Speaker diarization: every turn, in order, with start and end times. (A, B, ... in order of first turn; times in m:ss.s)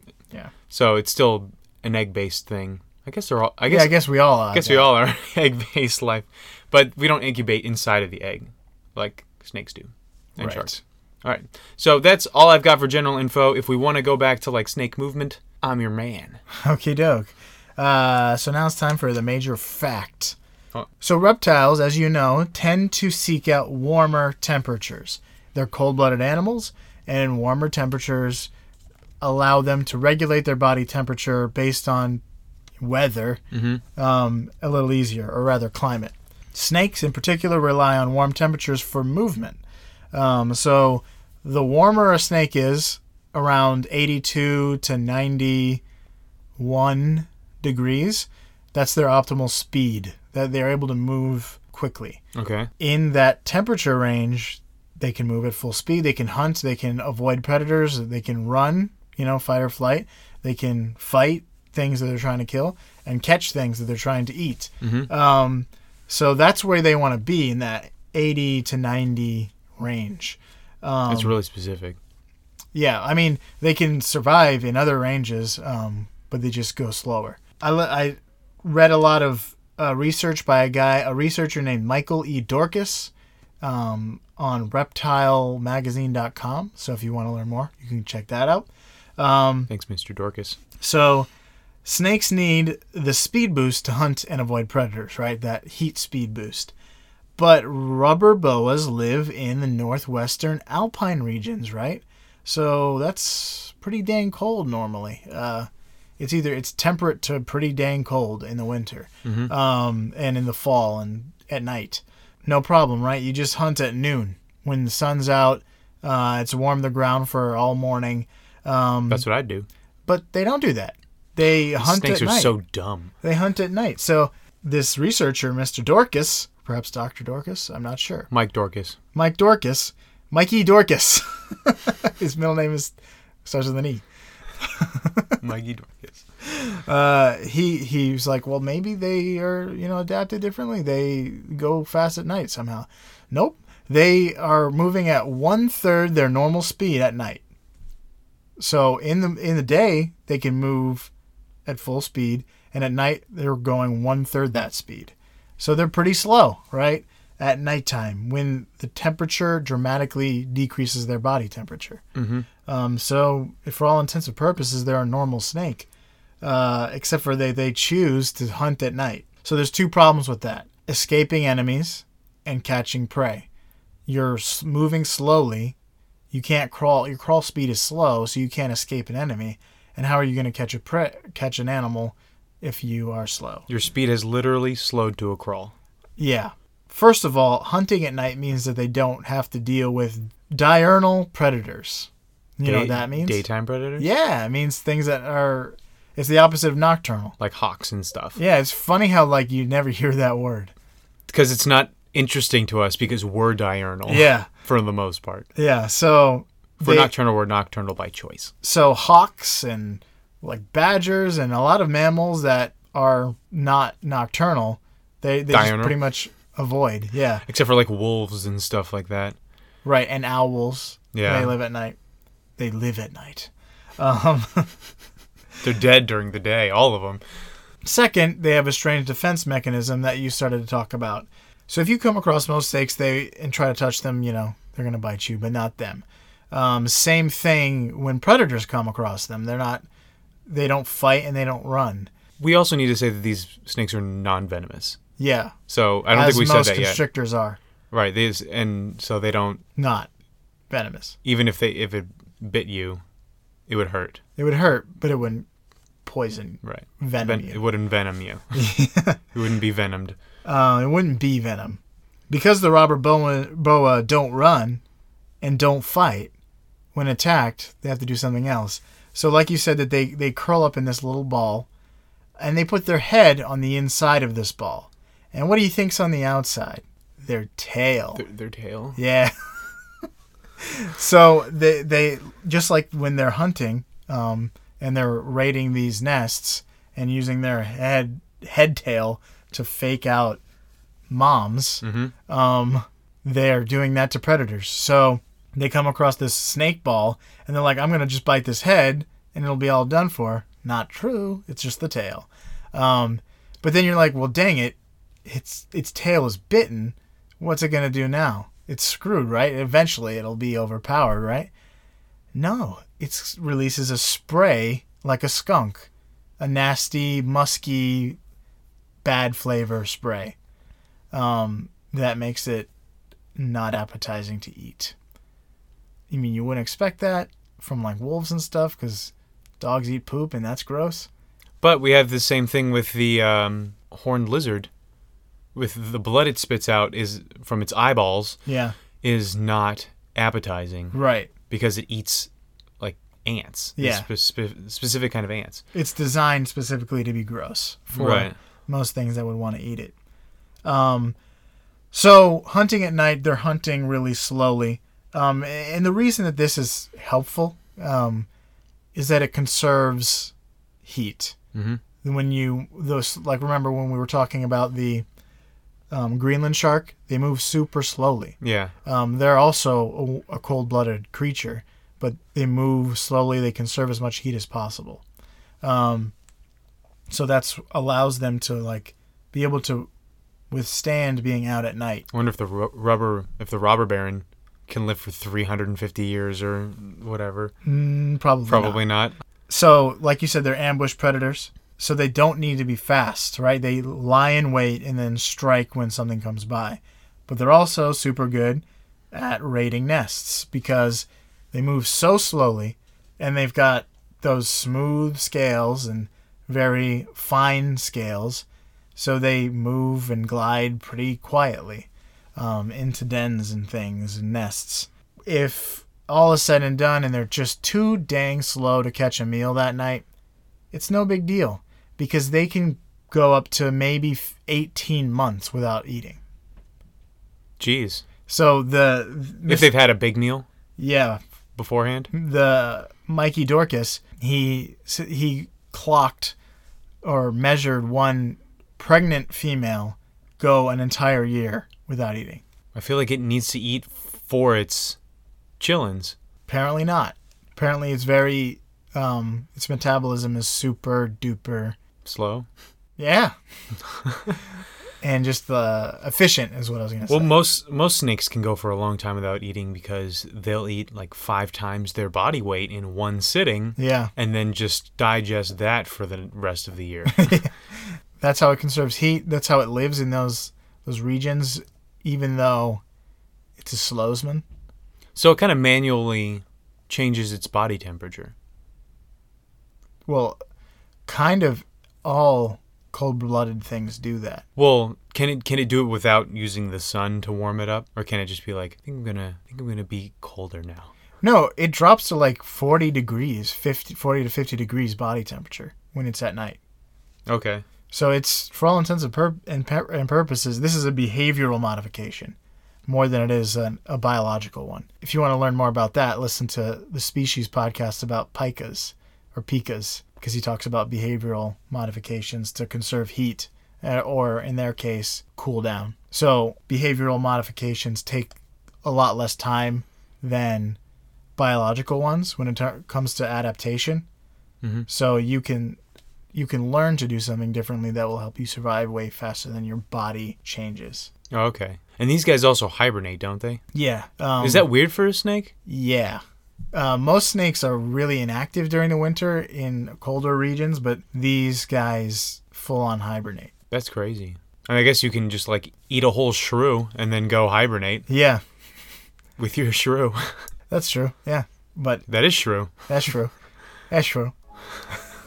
0:00.7-0:04.0 A
0:03.7-0:04.9 B
0:04.5-0:16.4 A
0:10.4-0:10.8 B
0:16.6-0:20.4 B
0:21.0-0:28.5 B
0:29.2-0:32.2 B
0:32.8-0:33.4 B
0:33.5-0:33.8 A
0:34.0-0:39.6 B
0:40.1-0:45.8 B
0:46.6-0:52.2 B
0:52.4-0:52.7 A
0:52.8-1:11.4 B
1:04.8-1:05.1 A
1:11.1-1:12.0 A
1:12.7-1:28.7 B
1:29.2-1:29.7 B
1:29.7-1:30.6 A
1:30.8-1:31.3 B
1:31.8-1:36.7 B
1:37.4-1:45.7 B
1:46.2-1:59.2 B
1:49.2-1:49.5 A
1:59.1-1:59.7 A
2:00.1-2:02.5 B
2:01.8-2:03.1 A
2:03.2-2:08.3 B
2:08.3-2:09.0 A
2:09.1-2:12.9 B
2:13.4-2:14.0 B
2:14.6-2:15.4 B
2:15.4-2:16.2 A
2:16.4-2:27.4 B
2:28.6-2:31.1 B
2:31.7-2:42.0 B
2:42.2-2:42.5 A
2:42.7-2:45.9 B
2:46.4-2:53.5 B
2:54.1-2:55.8 B
2:56.3-3:03.7 B
3:03.7-3:05.7 A
3:06.2-3:13.4 B
3:12.6-3:14.1 A
3:14.0-3:17.4 B
3:17.4-3:18.4 A
3:18.4-3:20.7 B
3:21.3-3:25.5 A
3:24.1-3:24.5 B
3:25.6-3:27.1 B
3:26.8-3:28.5 A
3:28.6-3:37.4 B
3:35.5-3:36.0 A
3:37.5-3:39.4 A
3:39.8-3:42.0 B
3:41.1-3:41.6 A
3:42.6-3:44.7 B
3:45.6-3:47.2 A
3:47.8-3:59.8 B
4:00.5-4:02.1 B
4:02.4-4:05.0 A
4:05.2-4:05.6 B
4:05.7-4:07.0 A
4:06.1-4:07.6 B
4:07.9-4:09.6 A
4:09.8-4:10.1 B
4:10.7-4:11.2 B
4:11.2-4:13.0 A
4:13.7-4:14.2 A
4:14.4-4:15.5 B
4:16.0-4:17.6 B
4:16.6-4:18.6 A
4:18.5-4:19.2 B
4:19.3-4:20.2 A
4:20.4-4:24.8 B
4:25.4-4:26.3 B
4:27.0-4:31.7 B
4:32.4-4:38.2 B
4:38.2-4:39.0 A
4:39.0-4:39.3 B
4:40.6-4:50.4 B
4:51.1-5:11.5 B
4:51.8-4:52.1 A
5:12.3-5:15.9 B
5:16.4-5:18.2 B
5:19.0-5:20.4 B
5:21.1-5:22.7 B
5:23.4-5:25.0 B
5:26.1-5:31.1 B
5:31.6-5:34.7 A
5:35.6-5:38.4 A
5:38.5-5:38.8 B
5:39.0-5:41.0 A
5:40.9-5:41.3 B
5:41.5-5:42.3 A
5:42.8-5:45.6 A
5:43.8-5:44.1 B
5:45.7-5:49.9 B
5:47.9-5:48.4 A
5:50.6-5:51.2 B
5:51.9-5:58.3 B
5:59.0-6:00.3 B
6:00.8-6:01.4 B
6:01.5-6:01.8 A
6:02.0-6:05.1 B
6:05.9-6:15.0 B
6:08.4-6:08.7 A
6:15.6-6:16.1 B
6:17.1-6:19.9 B
6:20.5-6:22.1 B
6:22.1-6:27.5 A
6:27.6-6:28.8 B
6:28.5-6:29.2 A
6:29.5-7:00.0 B
7:00.7-7:06.2 B
7:07.6-7:08.0 A
7:08.3-7:09.7 B
7:09.5-7:10.5 A
7:10.8-7:11.2 B
7:11.6-7:12.1 A
7:12.1-7:16.4 B
7:17.0-7:22.4 B
7:22.7-7:25.0 A
7:25.6-7:26.2 A
7:26.5-7:31.8 B
7:32.0-7:32.5 A
7:33.0-7:33.3 B
7:34.1-7:34.4 A
7:35.0-7:37.3 B
7:37.1-7:47.3 A
7:43.8-7:44.1 B
7:47.2-7:47.5 B
7:48.2-7:52.8 B
7:53.6-7:54.4 B
7:55.2-7:58.3 A
8:00.1-8:00.4 B
8:01.1-8:04.4 B
8:04.6-8:10.9 A
8:11.2-8:16.6 B
8:17.3-8:17.6 A
8:17.9-8:40.8 B
8:41.4-8:44.1 B
8:44.6-8:44.9 A
8:44.9-8:45.8 B
8:46.3-8:51.1 B
8:51.3-8:53.6 A
8:53.7-8:54.7 B
8:54.4-8:55.5 A
8:55.7-8:56.2 B
8:56.7-9:03.5 B
9:03.7-9:08.1 A
9:08.1-9:08.4 B
9:09.4-9:10.4 A
9:10.7-9:12.1 B
9:12.1-9:12.7 A
9:12.9-9:13.3 B
9:13.9-9:14.3 B